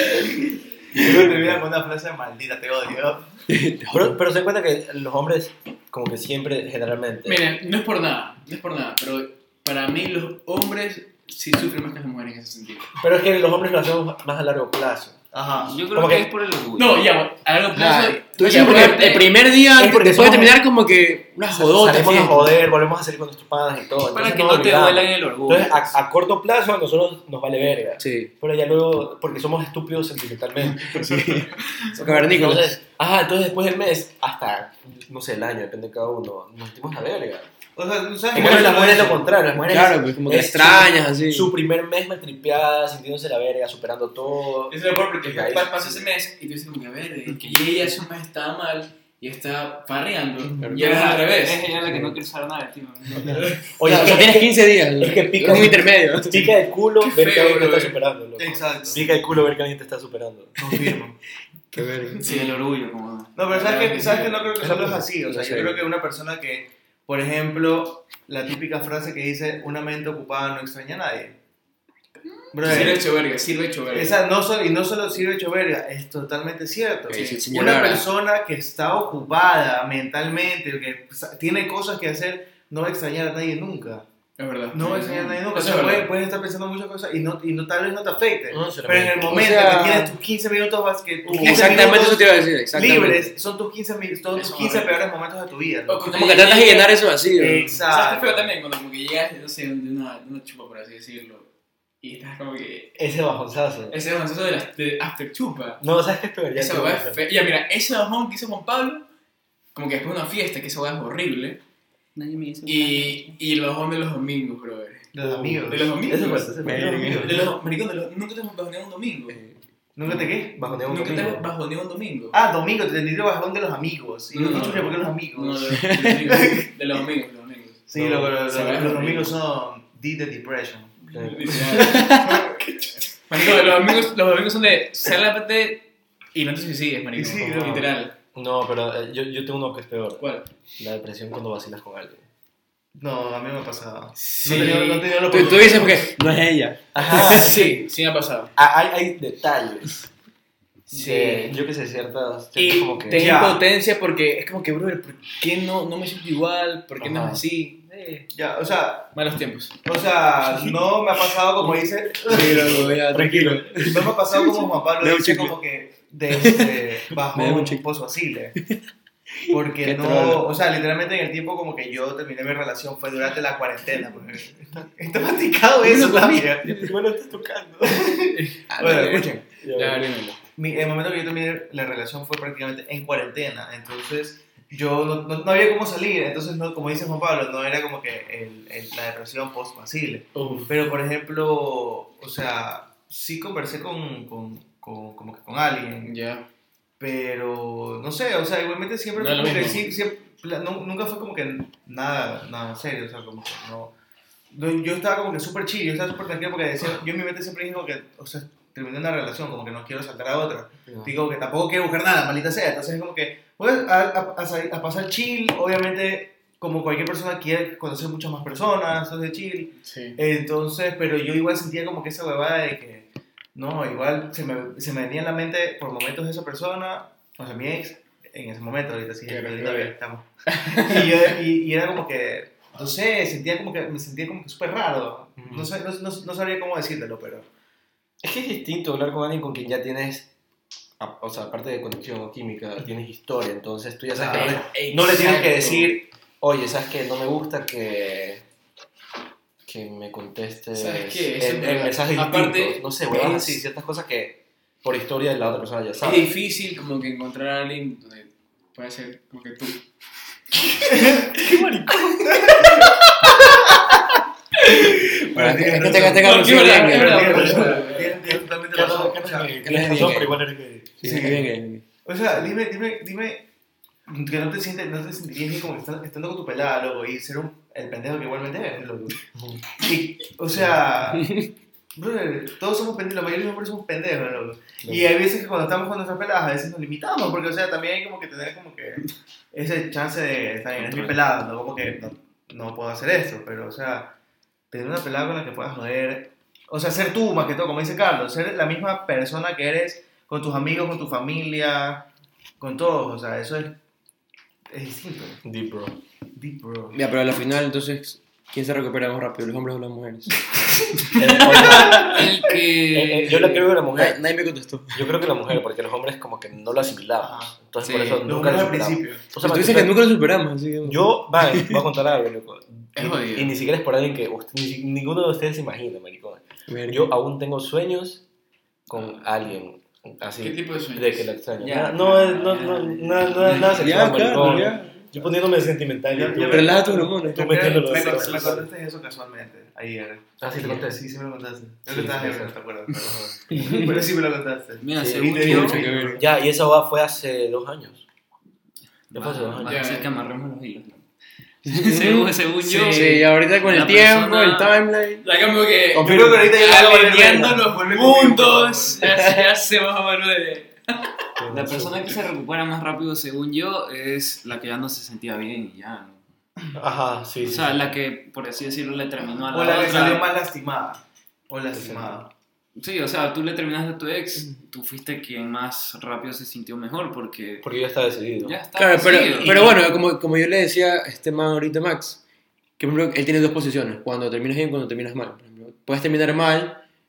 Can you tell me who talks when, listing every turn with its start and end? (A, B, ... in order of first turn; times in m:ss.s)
0:00.9-0:03.2 A
0:03.5-0:04.2 B
0:03.9-0:07.4 C
0:07.2-0:12.9 D
0:13.0-0:15.2 C
0:15.3-0:15.8 A
0:15.6-0:17.1 E
0:15.9-0:16.3 C
0:16.8-0:19.3 D
0:17.7-0:22.6 B
0:18.6-0:19.0 C
0:19.7-0:20.6 C
0:21.5-0:37.5 C
0:24.1-0:26.0 E
0:28.0-0:28.3 B
0:30.9-0:32.8 B
0:37.8-0:39.2 A
0:38.3-0:46.1 C
0:38.3-0:41.5 B
0:44.7-0:51.7 D
0:47.3-0:47.8 E
0:50.6-0:53.5 E
0:53.3-0:53.8 D
0:53.8-1:00.6 C
0:53.8-0:56.6 B
0:57.0-0:58.0 D
0:58.4-0:59.1 A
1:00.6-1:01.2 A
1:01.7-1:02.2 B
1:02.2-1:02.6 D
1:02.2-1:03.4 E
1:03.4-1:11.4 A
1:03.5-1:04.6 D
1:04.6-1:05.8 C
1:12.5-1:13.1 A
1:12.6-1:14.2 D
1:13.9-1:24.1 A
1:17.1-1:18.1 B
1:17.1-1:17.5 D
1:24.4-1:26.1 D
1:24.7-1:36.1 A
1:28.5-1:29.4 C
1:29.3-1:30.2 B
1:31.3-1:33.3 B
1:31.4-1:31.9 D
1:34.3-1:35.0 D
1:35.9-1:37.0 D
1:36.1-1:37.8 B
1:37.4-1:38.5 A
1:37.7-1:41.5 D
1:42.0-1:43.0 D
1:43.0-1:44.0 C
1:43.9-1:45.8 D
1:45.8-1:47.2 C
1:46.5-1:49.1 D
1:49.7-1:51.6 D
1:52.2-1:53.4 E
1:52.7-1:59.4 D
1:55.1-1:56.0 A
1:55.2-1:57.5 C
1:56.6-1:57.4 B
2:00.0-2:00.6 A
2:00.1-2:01.5 C
2:00.8-2:02.4 D
2:02.3-2:06.7 A
2:04.3-2:09.4 D
2:04.5-2:04.8 C
2:05.7-2:06.3 B
2:07.9-2:12.1 A
2:08.0-2:08.4 C
2:11.1-2:12.6 D
2:11.1-2:12.2 C
2:11.8-2:12.4 B
2:13.3-2:18.2 D
2:17.2-2:17.9 A
2:17.4-2:20.3 C
2:20.2-2:20.5 D
2:20.8-2:22.2 C
2:23.0-2:26.1 A
2:24.2-2:25.7 D
2:25.3-2:27.6 B
2:26.9-2:27.8 C
2:27.1-2:28.5 D
2:28.6-2:30.0 C
2:30.9-2:31.6 D
2:30.9-2:33.4 C
2:32.6-2:38.3 D
2:33.1-2:33.6 A
2:37.0-2:37.4 C
2:38.3-2:39.2 A
2:39.1-2:39.8 D
2:39.8-2:42.9 A
2:42.2-2:44.1 B
2:42.3-2:44.1 C
2:43.8-2:48.6 A
2:45.0-2:45.6 B
2:46.3-2:46.8 B
2:47.3-2:47.8 B
2:49.5-2:50.4 B
2:49.5-2:56.9 A
2:55.8-2:57.0 B
2:56.7-2:58.1 C
2:57.8-2:59.4 A
2:58.3-2:58.6 D
2:58.7-2:59.4 B
2:59.6-3:00.2 C
2:59.7-3:00.4 D
3:00.6-3:16.2 A
3:10.3-3:10.7 D
3:16.0-3:16.5 D
3:17.0-3:23.9 A
3:19.2-3:19.9 D
3:24.5-3:57.5 A
3:30.9-3:31.1 C
3:39.8-3:40.2 D
3:49.3-3:50.0 D
3:50.5-3:51.2 D
3:55.4-3:55.7 C
3:58.2-4:00.3 C
4:01.0-4:08.4 C
4:04.2-4:06.0 A
4:04.2-4:05.6 D
4:09.6-4:16.3 C
4:10.8-4:13.6 D
4:16.0-4:19.8 D
4:20.6-4:21.3 D
4:20.9-4:21.3 A
4:21.4-4:22.5 C
4:22.1-4:22.9 A
4:24.8-4:30.2 A
4:25.3-4:27.7 B
4:26.2-4:28.2 D
4:27.4-4:31.0 C
4:29.6-4:30.4 B
4:31.0-4:31.8 B
4:31.0-4:33.5 A
4:34.1-4:39.2 A
4:39.3-4:39.6 C
4:39.8-4:41.3 A
4:41.2-4:41.5 B
4:42.0-4:54.1 A
4:44.8-4:45.1 C
4:50.8-4:51.2 E
4:54.7-5:02.1 A
5:02.6-5:03.8 A
5:04.7-5:05.4 A
5:05.4-5:06.0 C
5:06.4-5:07.0 A
5:06.9-5:10.4 B
5:11.2-5:12.3 C
5:11.4-5:13.6 E
5:11.7-5:12.0 A
5:12.9-5:14.2 C
5:13.9-5:15.1 B
5:14.9-5:20.0 C
5:17.2-5:17.6 A
5:17.8-5:18.2 E
5:18.2-5:19.2 A
5:19.4-5:21.8 B
5:20.8-5:28.2 C
5:23.0-5:23.6 D
5:26.7-5:27.1 B
5:28.9-5:38.7 C
5:30.4-5:31.3 D
5:31.6-5:34.0 E
5:33.6-5:35.0 B
5:36.1-5:46.2 A
5:36.4-5:38.5 B
5:40.4-5:41.0 C
5:41.9-5:43.9 C
5:43.5-5:43.9 B
5:44.8-5:45.8 E
5:45.0-5:48.0 C
5:45.5-5:46.2 B
5:49.1-5:51.1 E
5:49.1-5:49.8 C
5:49.6-5:50.2 D
5:51.7-5:52.3 B
5:51.7-5:54.8 E
5:52.6-5:53.3 D
5:52.9-5:55.2 B
5:55.2-5:59.3 D
5:56.0-5:59.0 A
5:56.0-5:56.4 C
5:59.0-6:00.7 E
5:59.0-5:59.4 B
6:01.4-6:02.0 C
6:01.5-6:06.2 E
6:06.8-6:08.0 C
6:07.4-6:10.3 E
6:09.5-6:12.3 A
6:11.8-6:12.1 C
6:12.8-6:17.7 E
6:17.6-6:18.6 C
6:18.4-6:19.6 E
6:18.8-6:22.2 B
6:19.3-6:19.8 C
6:22.8-6:26.8 B